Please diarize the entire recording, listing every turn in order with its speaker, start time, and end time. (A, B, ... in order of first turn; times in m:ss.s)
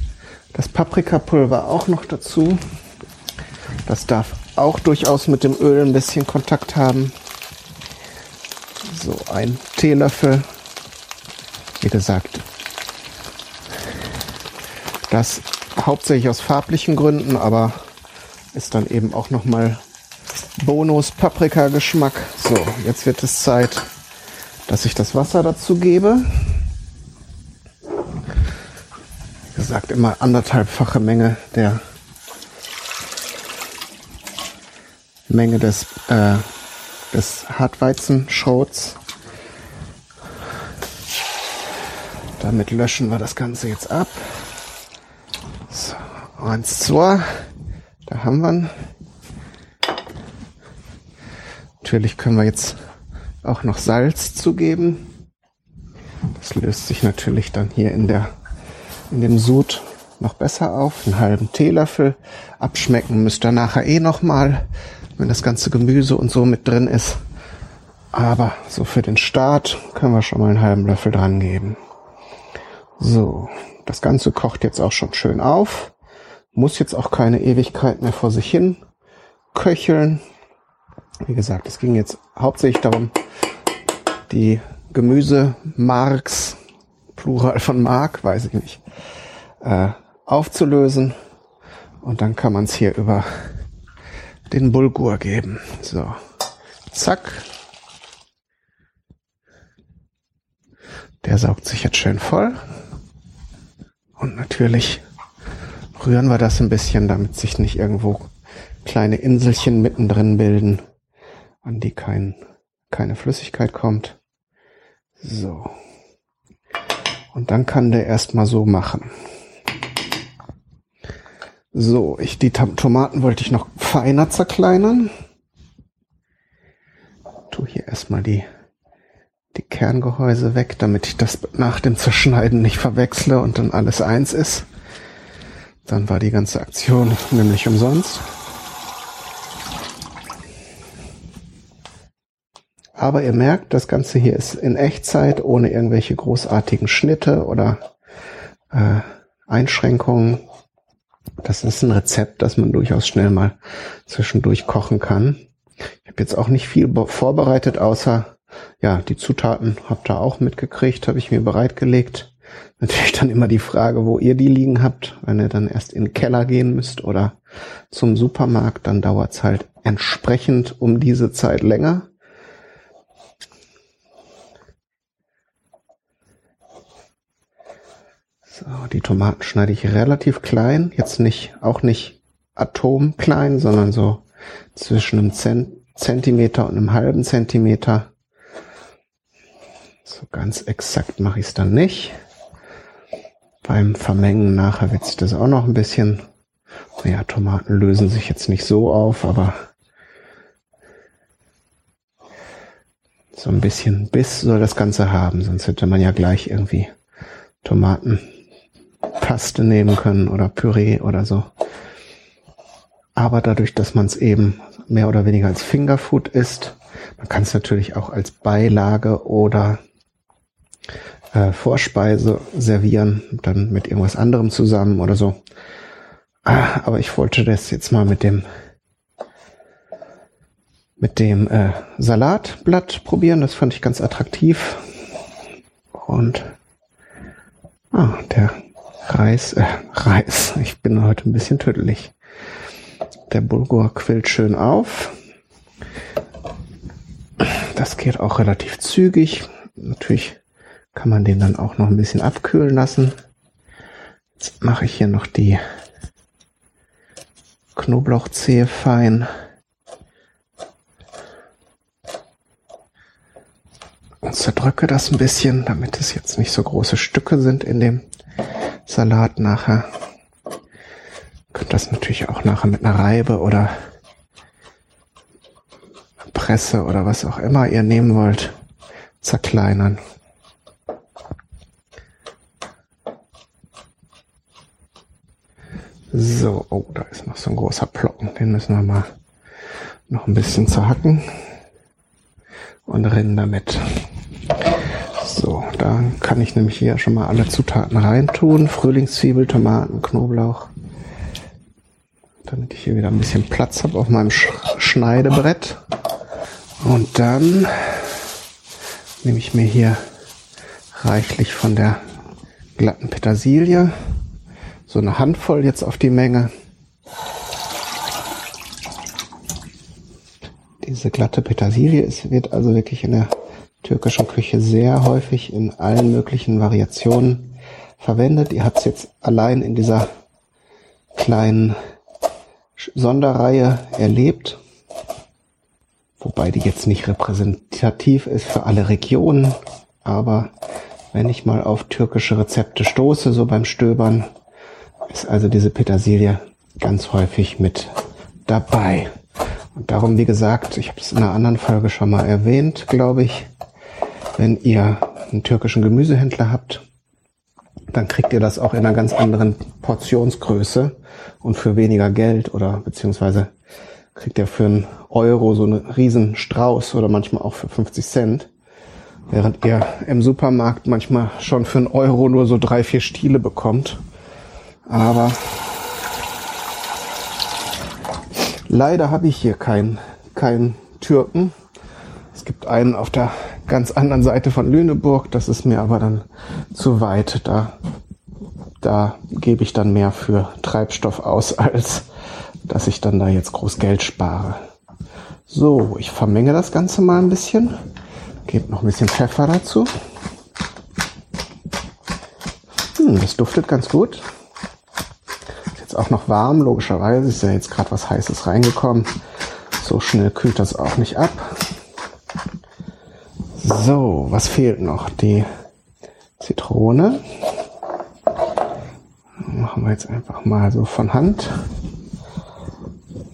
0:00.5-0:02.6 A
0:03.9-0:07.2 A
0:08.8-0:10.4 A
0:11.8-0:12.4 A
0:15.1-0:17.8 A
0:18.5-0:19.8 A
0:20.6-0:23.9 A
0:24.7-0:26.3 A
0:29.5-0:31.8 A
0:35.3-0:36.5 A
0:37.1-0:39.0 A
0:42.4-0:44.2 A
0:45.7-0:47.3 A
0:48.1-0:48.7 A
0:51.8-0:52.8 A
0:53.4-0:55.1 A
0:56.3-0:58.3 A
0:59.1-1:04.6 A
1:05.2-1:07.2 A
1:08.1-1:11.8 A
1:13.0-1:15.9 A
1:16.6-1:18.8 A
1:19.5-1:20.2 A
1:21.2-1:23.1 A
1:24.3-1:26.6 A
1:27.2-1:28.8 A
1:29.6-1:31.2 A
1:32.0-1:33.3 A
1:34.5-1:36.2 A
1:36.9-1:37.5 A
1:41.2-1:42.6 A
1:44.2-1:45.0 A
1:46.0-1:48.3 A
1:48.8-1:50.8 A
1:51.6-1:52.4 A
1:52.9-1:54.2 A
1:55.2-1:55.7 A
1:57.3-1:59.1 A
2:01.7-2:05.1 A
2:07.5-2:08.5 A
2:09.5-2:14.7 A
2:15.9-2:18.2 A
2:23.0-2:27.8 A
2:28.7-2:30.4 A
2:31.4-2:35.4 A
2:36.0-2:47.4 A
2:47.9-2:52.1 A
2:58.5-3:04.2 A
3:04.8-3:08.1 A
3:10.0-3:12.2 A
3:13.6-3:16.2 A
3:17.0-3:19.6 A
3:23.3-3:26.9 A
3:27.6-3:28.2 A
3:29.2-3:31.5 A
3:33.2-3:39.8 A
3:41.3-3:45.4 A
3:46.4-3:48.4 A
3:51.0-3:54.8 A
3:56.0-3:56.5 A
3:57.9-3:58.6 A
3:59.1-4:02.1 A
4:03.3-4:05.1 A
4:07.4-4:10.4 A
4:10.9-4:13.2 A
4:14.4-4:15.6 A
4:17.8-4:19.3 A
4:24.2-4:28.0 A
4:28.9-4:29.9 A
4:31.5-4:33.7 A
4:36.3-4:38.6 A
4:39.2-4:40.0 A
4:46.1-4:49.1 A
4:50.1-4:51.3 A
4:52.9-4:53.9 A
4:55.2-5:00.7 A
5:02.4-5:05.8 A
5:06.8-5:08.2 A
5:09.2-5:10.0 A
5:10.9-5:12.0 A
5:12.8-5:13.9 A
5:14.9-5:16.5 A
5:20.8-5:30.1 A
5:31.2-5:31.8 A
5:32.8-5:34.6 A
5:36.2-5:40.5 A
5:41.1-5:44.3 A
5:45.1-5:48.0 A
5:48.5-5:49.1 A
5:49.8-5:53.5 A
5:54.4-5:56.8 A
5:57.9-6:03.5 A
6:04.2-6:08.5 A
6:09.3-6:14.0 A
6:14.9-6:15.6 A
6:18.7-6:21.5 A
6:22.3-6:27.8 A
6:28.8-6:32.1 A
6:32.7-6:34.6 A
6:35.5-6:37.7 A
6:38.5-6:39.9 A
6:43.0-6:44.3 A
6:45.8-6:49.2 A
6:49.8-6:51.7 A
6:53.6-6:55.5 A
6:56.4-6:57.2 A
6:59.4-7:01.6 A